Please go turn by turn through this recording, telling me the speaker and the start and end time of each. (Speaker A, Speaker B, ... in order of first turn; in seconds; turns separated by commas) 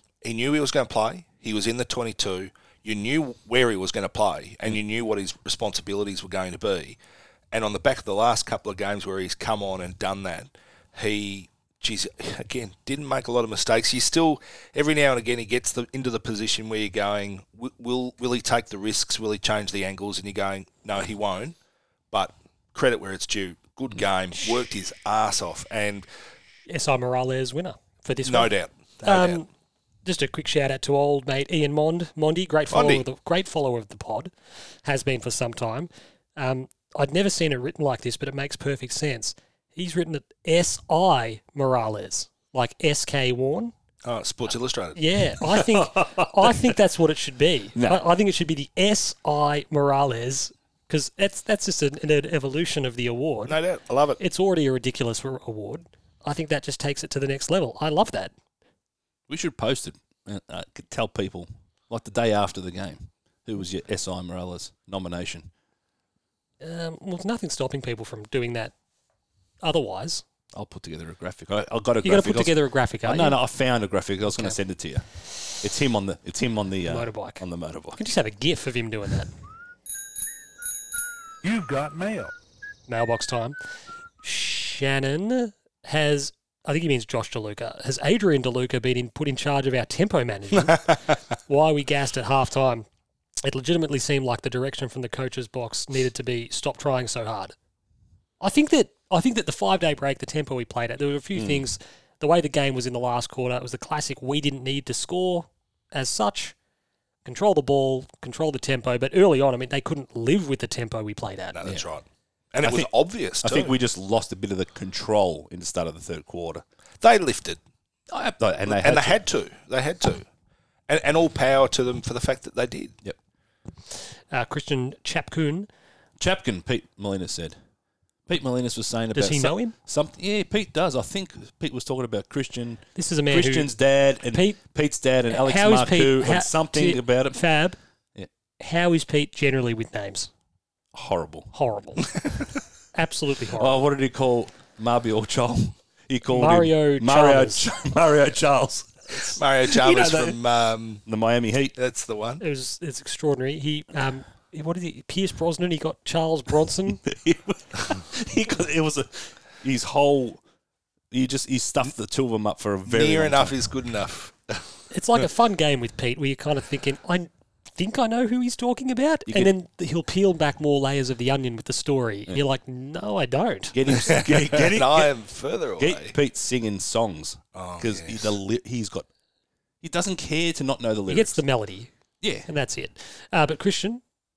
Speaker A: 0.2-7.0, Speaker A: 7.5-21.6, Speaker A: 22.1-26.1, Speaker B: 26.7-28.5, Speaker A: 28.2-29.4, Speaker B: 29.0-29.5, Speaker B: 30.1-34.3, Speaker A: 32.7-33.0, Speaker B: 34.8-43.7, Speaker A: 44.0-45.0, Speaker B: 45.0-53.6, Speaker C: 45.5-46.6, Speaker C: 47.8-48.0, Speaker A: 53.5-54.2, Speaker B: 54.2-58.3, Speaker C: 59.3-65.5, Speaker B: 66.6-68.7, Speaker B: 69.6-70.2, Speaker C: 70.5-75.1, Speaker B: 72.0-73.4, Speaker C: 75.6-78.0, Speaker B: 76.8-77.4, Speaker B: 78.0-79.3, Speaker B: 82.9-83.6, Speaker B: 84.2-92.8, Speaker B: 93.4-97.5, Speaker B: 98.4-106.5, Speaker C: 101.4-101.7, Speaker B: 107.2-111.6, Speaker A: 111.5-113.7, Speaker C: 112.6-112.9, Speaker C: 113.4-116.6, Speaker A: 117.0-117.6, Speaker C: 118.1-119.2, Speaker A: 118.7-120.3, Speaker A: 120.9-123.0, Speaker B: 124.3-125.7, Speaker C: 126.2-127.6, Speaker C: 128.3-137.4, Speaker B: 129.2-129.7, Speaker B: 133.0-133.7, Speaker B: 134.3-134.6, Speaker B: 135.3-137.8, Speaker B: 138.6-140.3, Speaker C: 140.9-141.5, Speaker B: 141.5-142.2, Speaker B: 142.9-143.8, Speaker C: 143.6-150.4, Speaker B: 146.3-147.7, Speaker A: 149.4-151.0, Speaker C: 151.1-151.8, Speaker A: 151.8-152.4, Speaker B: 152.4-157.0, Speaker C: 157.0-160.4, Speaker C: 161.1-163.6, Speaker A: 162.9-164.7, Speaker B: 164.9-173.8, Speaker C: 169.3-169.5, Speaker C: 173.7-175.1, Speaker A: 173.9-176.2, Speaker C: 175.8-179.1, Speaker A: 177.5-178.4, Speaker C: 179.8-181.4, Speaker B: 181.1-181.9, Speaker C: 182.2-182.5, Speaker B: 182.5-184.0